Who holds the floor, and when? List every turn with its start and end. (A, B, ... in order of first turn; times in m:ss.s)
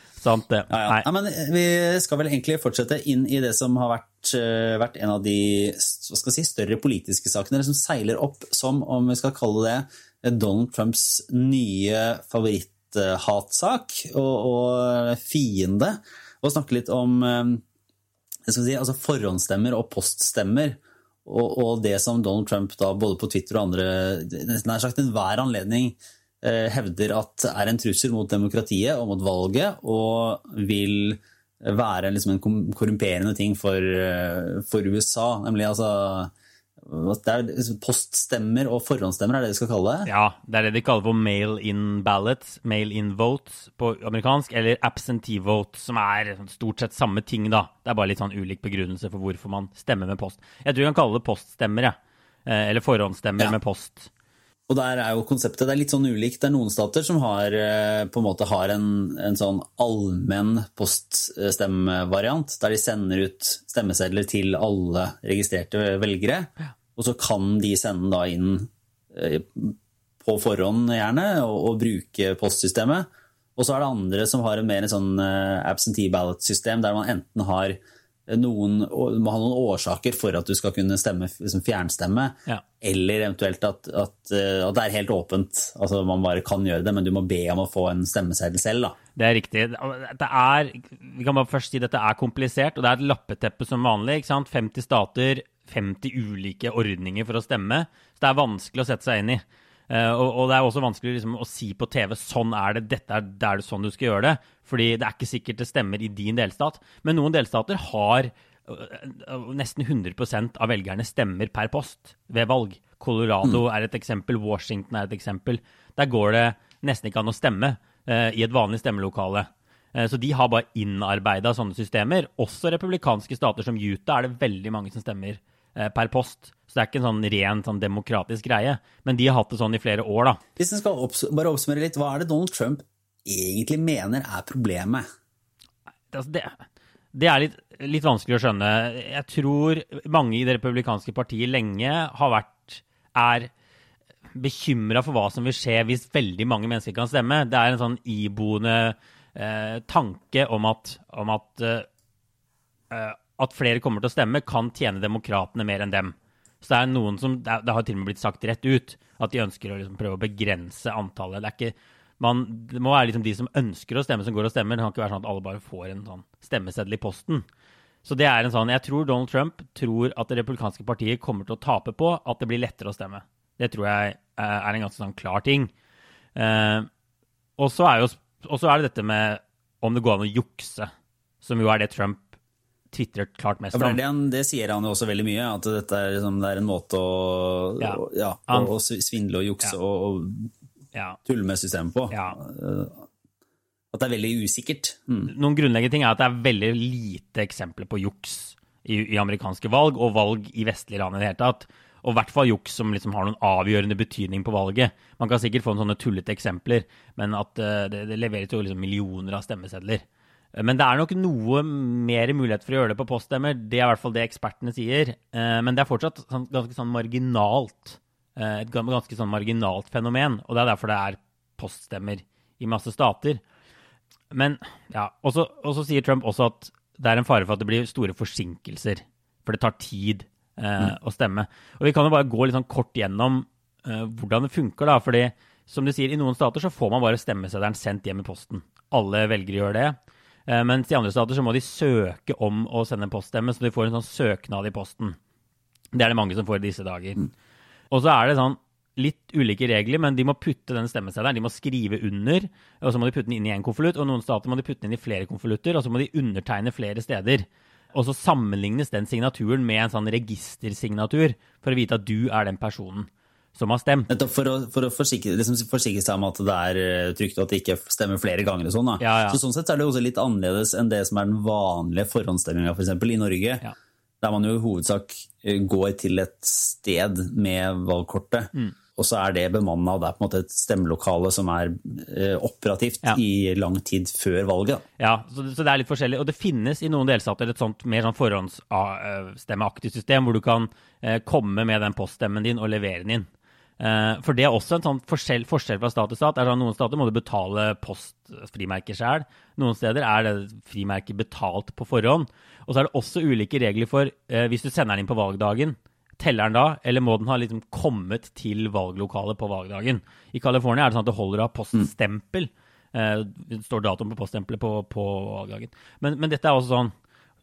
0:00.2-0:01.1 A
0:00.7-0:17.6 B
0:18.5-0:40.1 B
0:40.1-0:54.1 A
0:54.7-1:29.0 B
1:29.2-2:10.4 A
2:10.6-2:15.0 B
2:16.1-2:16.6 A
2:17.1-2:23.5 A
2:24.3-2:31.8 A
2:32.9-2:47.4 A
2:48.0-2:55.7 A
2:56.4-2:56.9 A
2:57.6-3:00.9 A
3:01.4-3:02.3 A
3:02.9-3:04.0 A
3:03.7-3:10.5 B
3:07.8-3:08.7 A
3:10.9-3:11.2 A
3:11.2-3:13.1 B
3:12.1-3:12.4 A
3:13.9-3:15.3 B
3:15.2-3:30.0 A
3:30.5-3:43.4 A
3:44.3-4:05.2 A
4:05.9-4:07.3 A
4:07.9-4:24.1 A
4:24.1-4:33.6 B
4:29.0-4:29.4 A
4:34.2-4:44.8 B
4:45.0-4:53.3 A
4:53.8-5:16.9 A